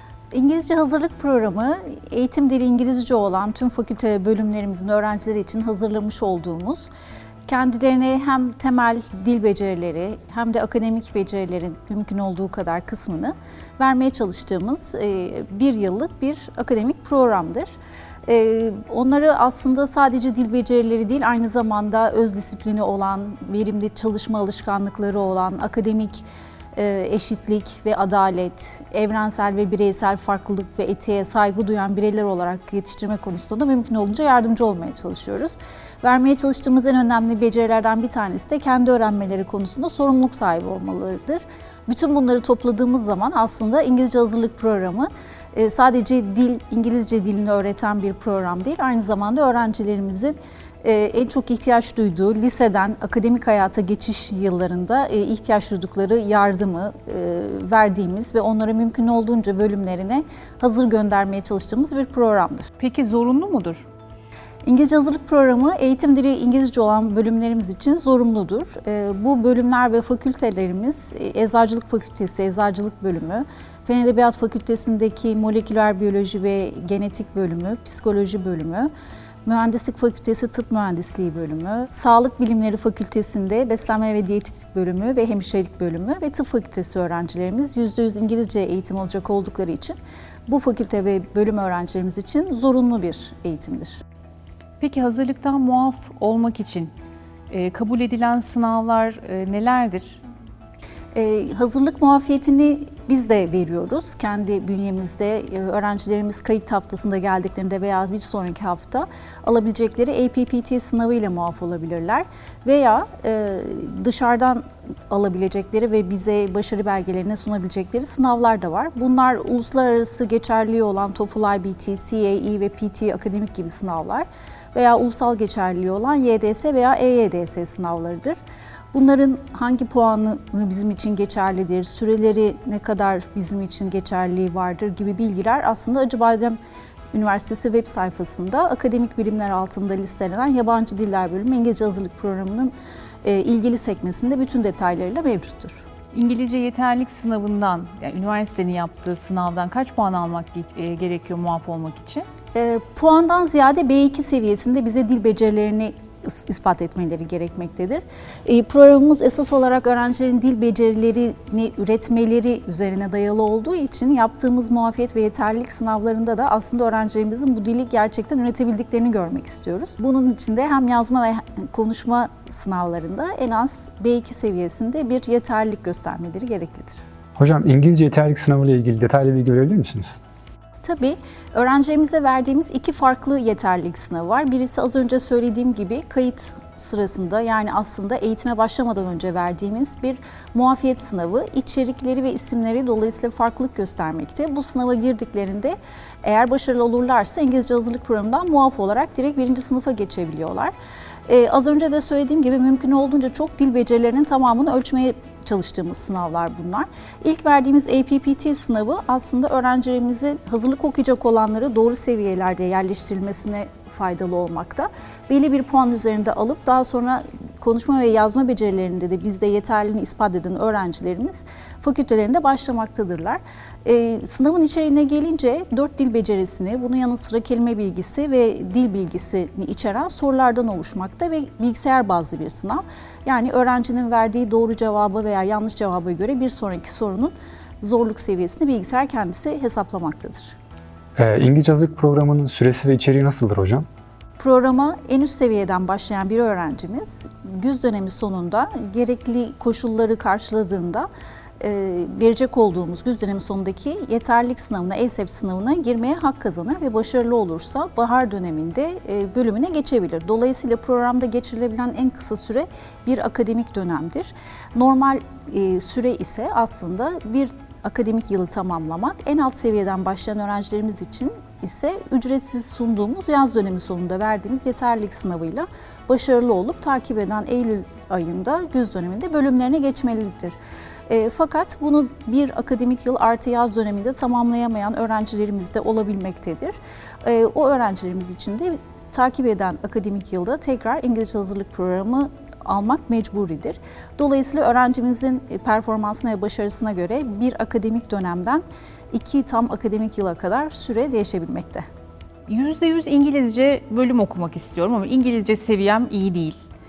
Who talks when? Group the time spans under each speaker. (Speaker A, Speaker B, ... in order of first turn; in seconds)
Speaker A: 0.3-6.9, 7.5-17.7, 18.3-62.7, 64.6-78.9, 79.5-94.0, 101.1-128.4, 128.9-136.6, 137.1-145.8, 152.5-177.0, 180.8-200.7, 201.3-240.6, 244.4-251.1, 251.6-280.6, 281.1-301.9
Speaker B: 62.8-63.9, 94.8-96.9, 97.5-100.2, 146.1-152.3, 302.5-306.6
Speaker C: 177.4-180.2, 241.2-243.8